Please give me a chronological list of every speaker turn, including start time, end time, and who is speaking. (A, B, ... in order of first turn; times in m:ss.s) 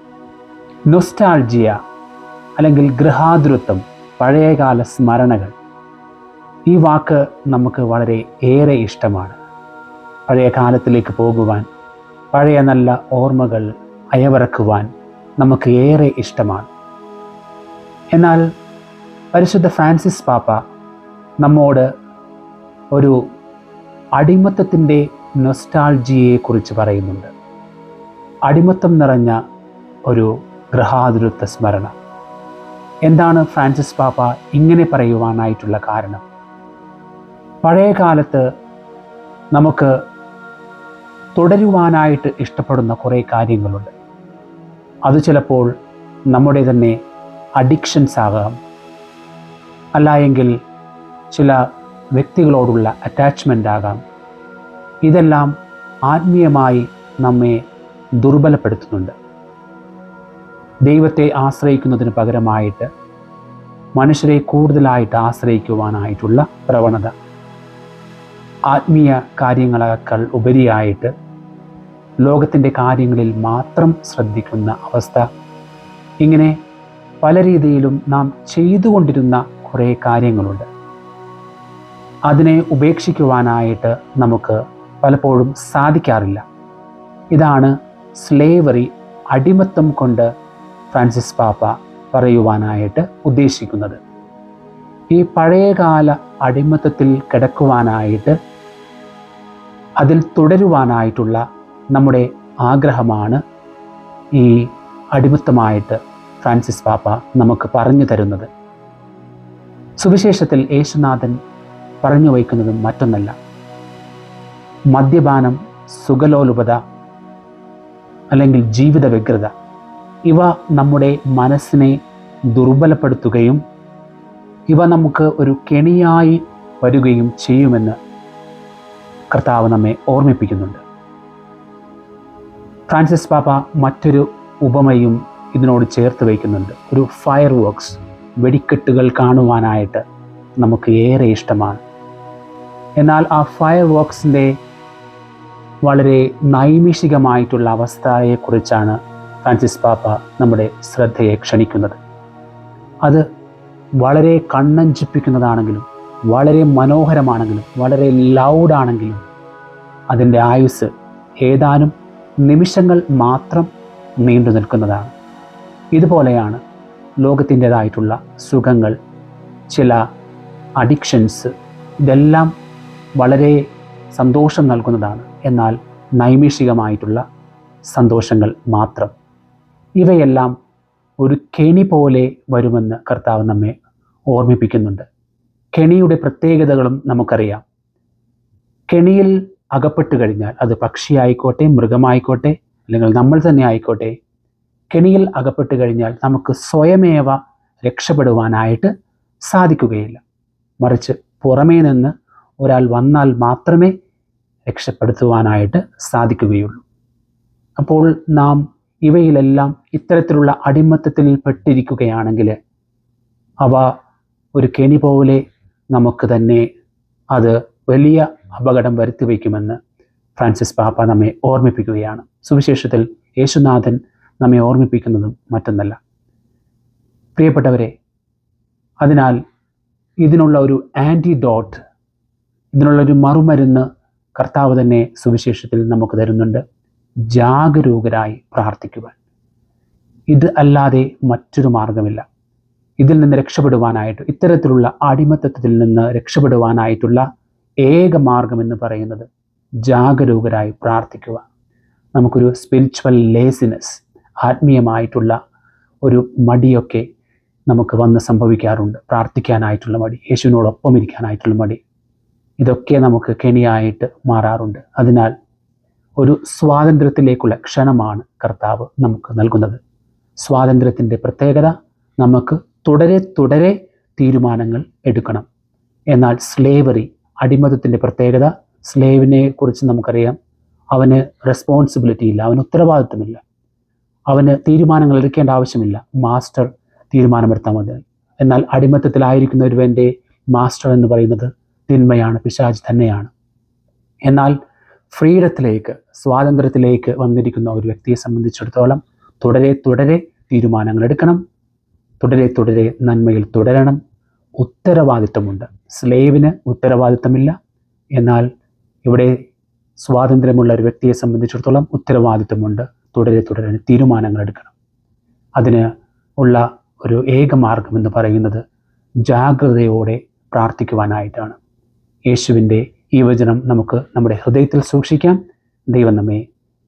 0:00.9-0:01.8 A
0:02.6-0:05.5 A
0:06.7-0:09.4 A
0:10.3-0:11.7 A
0:12.3-0:14.9 A
0:15.4-0:16.7 A
0:18.1-0:18.4 A
0:19.3-0:20.6 A
0:21.4-0:21.9 A
0:22.9-0:23.2 A
0:24.2-0:27.3 A
0:28.5-0:29.4 A
0:30.1-0:31.9 A
0:33.1-0:36.2 A
0:37.6-0:38.4 A
0:39.5-0:39.9 A
0:41.4-0:43.9 A
0:45.1-0:45.7 A
0:46.3-0:47.0 A
0:47.6-0:48.5 A
0:50.0-0:50.5 A
0:51.3-0:51.6 A
0:52.2-0:54.0 A
0:55.1-0:55.5 A
0:56.1-0:57.6 A
0:58.2-0:59.1 A
1:00.9-1:02.9 A
1:04.0-1:07.1 A
1:08.7-1:11.1 A
1:12.2-1:15.2 A
1:16.2-1:16.6 A
1:17.2-1:20.7 A
1:22.3-1:26.4 A
1:27.3-1:30.3 A
1:30.9-1:34.0 A
1:35.1-1:38.4 A
1:40.0-1:41.4 A
1:41.9-1:43.4 A
1:44.4-1:48.5 A
1:50.0-1:51.4 A
1:52.0-1:53.3 A
1:54.9-1:56.8 A
1:58.3-1:59.5 A
2:00.3-2:02.0 A
2:02.5-2:03.6 A
2:04.7-2:08.0 A
2:09.3-2:10.8 A
2:12.9-2:20.0 A
2:20.6-2:21.8 A
2:23.0-2:24.5 A
2:25.8-2:32.0 A
2:34.0-2:39.2 A
2:40.1-2:40.9 A
2:41.4-2:41.9 A
2:42.4-2:43.7 A
2:44.2-2:45.1 A
2:46.0-2:46.6 A
2:47.2-2:48.9 A
2:49.7-2:50.0 A
2:50.8-2:51.5 A
2:52.1-2:52.5 A
2:53.2-2:53.6 A
2:54.1-2:57.2 A
2:57.9-2:59.1 A
3:00.0-3:00.5 A
3:01.2-3:03.8 A
3:04.3-3:05.1 A
3:05.7-3:07.6 A
3:08.9-3:14.1 A
3:14.9-3:18.9 A
3:19.5-3:20.2 A
3:20.8-3:23.9 A
3:24.7-3:26.8 A
3:27.8-3:32.6 A
3:33.6-3:33.9 A
3:34.6-3:35.4 A
3:35.9-3:36.6 A
3:37.3-3:39.8 A
3:40.4-3:46.0 A
3:47.4-3:47.9 A
3:49.0-3:49.4 A
3:50.2-3:51.8 A
3:52.8-3:53.8 A
3:54.4-3:56.6 A
3:57.3-3:59.2 A
4:00.3-4:02.2 A
4:03.0-4:07.2 A
4:07.8-4:09.3 A
4:09.9-4:11.4 A
4:12.2-4:15.3 A
4:16.0-4:17.0 A
4:17.7-4:21.8 A
4:22.6-4:25.3 A
4:26.2-4:29.8 A
4:30.4-4:35.5 A
4:36.1-4:40.4 A
4:40.9-4:43.4 A
4:44.3-4:53.3 A
4:54.3-4:54.6 A
4:55.1-5:01.4 A
5:02.2-5:04.0 A
5:04.6-5:07.5 A
5:08.2-5:08.5 A
5:09.0-5:09.4 A
5:10.0-5:14.7 A
5:15.6-5:15.9 A
5:16.4-5:18.6 A
5:19.3-5:21.6 A
5:22.3-5:25.4 A
5:25.9-5:26.4 A